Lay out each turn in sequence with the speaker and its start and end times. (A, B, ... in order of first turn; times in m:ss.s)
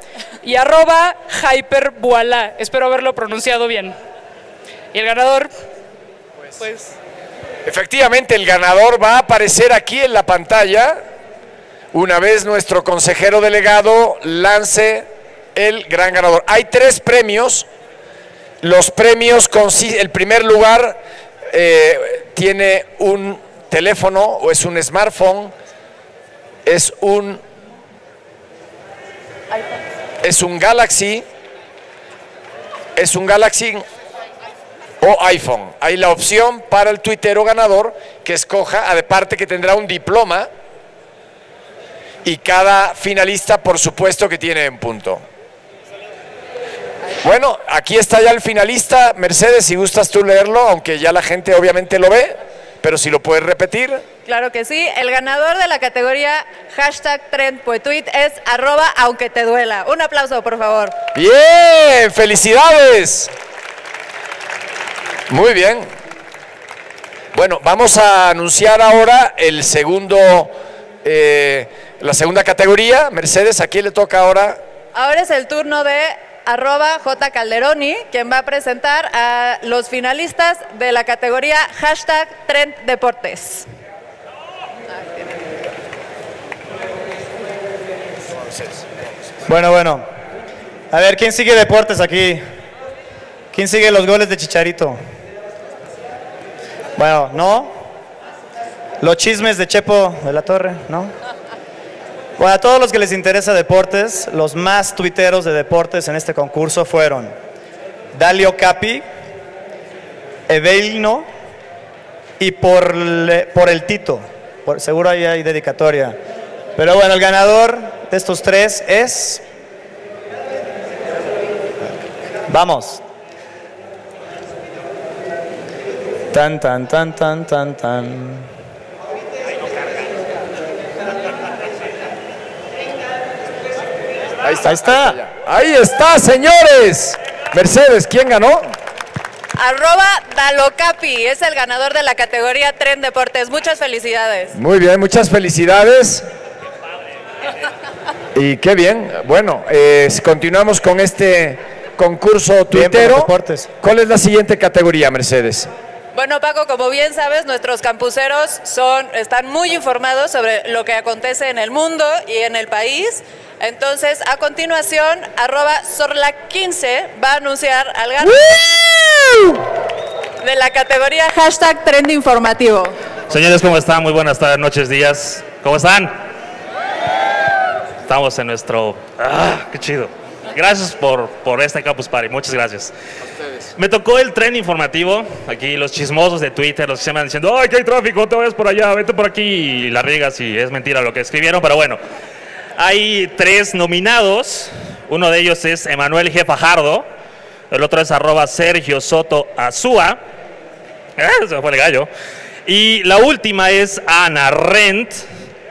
0:00.4-0:04.0 A
0:04.9-0:05.5 A
0:07.6-0:11.0 B
0:11.9-0:17.7 B
0:18.6-0:21.0 B
0:21.5-0:25.5 B
0:26.6-0:27.4 B
0:30.2-0:31.2 B
0:33.0-0:33.8 B
0:35.0-0:40.5 B
0:42.2-0:45.2 B
0:47.2-0:54.0 B
0:54.2-1:00.9 C
1:01.1-1:03.3 B
1:05.3-1:05.8 B
1:07.3-1:10.5 B
1:11.0-1:14.6 B
1:14.9-1:23.7 C
1:24.9-1:25.4 C
1:29.4-1:30.0 D
1:30.9-1:32.4 D
1:33.5-1:35.0 D
1:37.0-1:37.7 D
1:39.0-1:41.1 D
1:42.4-1:47.3 D
1:48.1-1:49.0 D
1:50.5-1:51.2 D
1:52.4-1:56.2 D
1:56.8-1:59.4 D
2:02.5-2:03.0 D
2:06.3-2:08.4 D
2:14.4-2:18.6 B
2:14.6-2:15.2 D
2:19.6-2:24.5 C
2:24.5-2:26.2 B
2:28.3-2:35.7 B
2:32.7-2:33.7 D
2:36.1-2:49.4 C
2:50.4-2:52.9 C
2:53.3-2:56.1 E
2:58.1-3:02.9 E
3:03.8-3:12.0 E
3:12.8-3:17.0 E
3:17.7-3:20.2 E
3:21.2-3:22.1 E
3:22.7-3:25.2 E